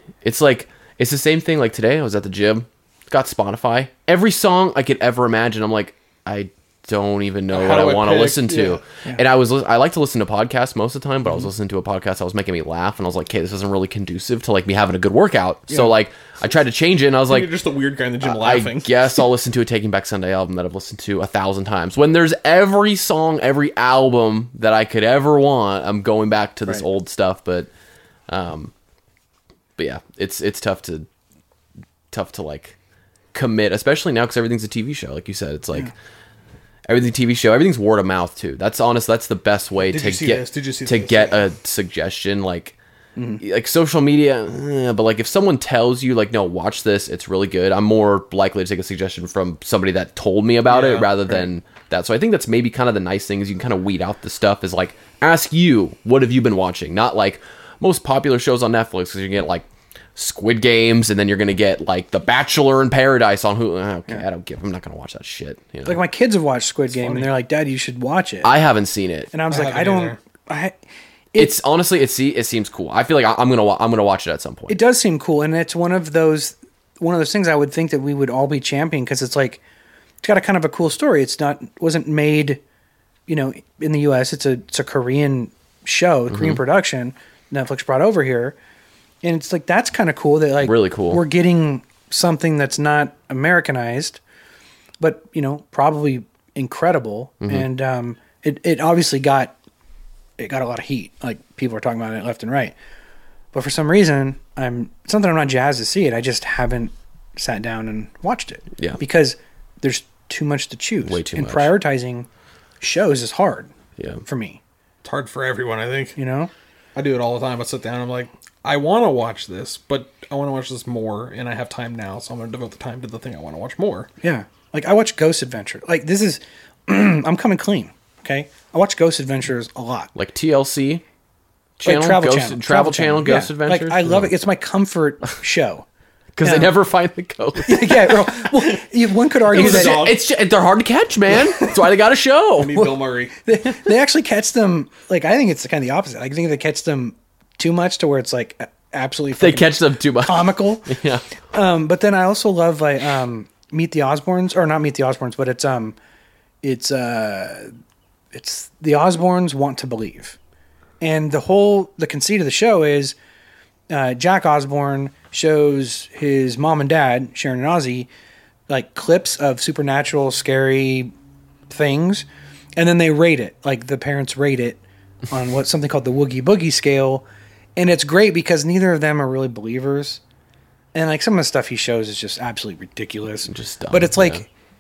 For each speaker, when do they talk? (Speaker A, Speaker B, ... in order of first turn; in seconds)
Speaker A: 0.2-17.5, 18.2-27.7, 28.3-28.7, 29.8-31.1, 32.1-32.8, 33.3-35.9, 36.9-42.8, 43.4-66.0, 68.4-69.3, 71.4-74.8, 86.3-86.6, 90.6-91.2, 111.0-111.7, 114.0-114.2, 130.2-131.0, 131.8-134.3, 136.4-138.5, 139.5-142.8, 149.4-151.3, 183.5-184.4
Speaker B: 7.5-8.8, 17.3-19.1, 39.9-41.4, 50.7-51.1, 66.9-67.3, 69.5-70.2, 115.0-116.2, 117.0-124.1, 139.5-140.2, 142.6-143.4
Speaker C: 43.2-43.4, 65.8-68.5, 69.3-70.8, 74.7-79.6, 80.2-82.6, 83.3-88.6, 89.2-94.2, 95.0-99.5, 100.4-102.8, 103.5-112.3, 112.8-113.7, 114.2-114.6, 116.2-116.5, 124.2-130.1, 131.8-135.9, 136.4-136.7, 137.6-140.1, 142.7-156.0, 156.6-157.7, 158.3-160.4, 161.0-163.2, 163.9-168.1, 168.7-171.1, 171.7-172.3, 172.8-177.2, 177.8-180.2, 180.9-184.5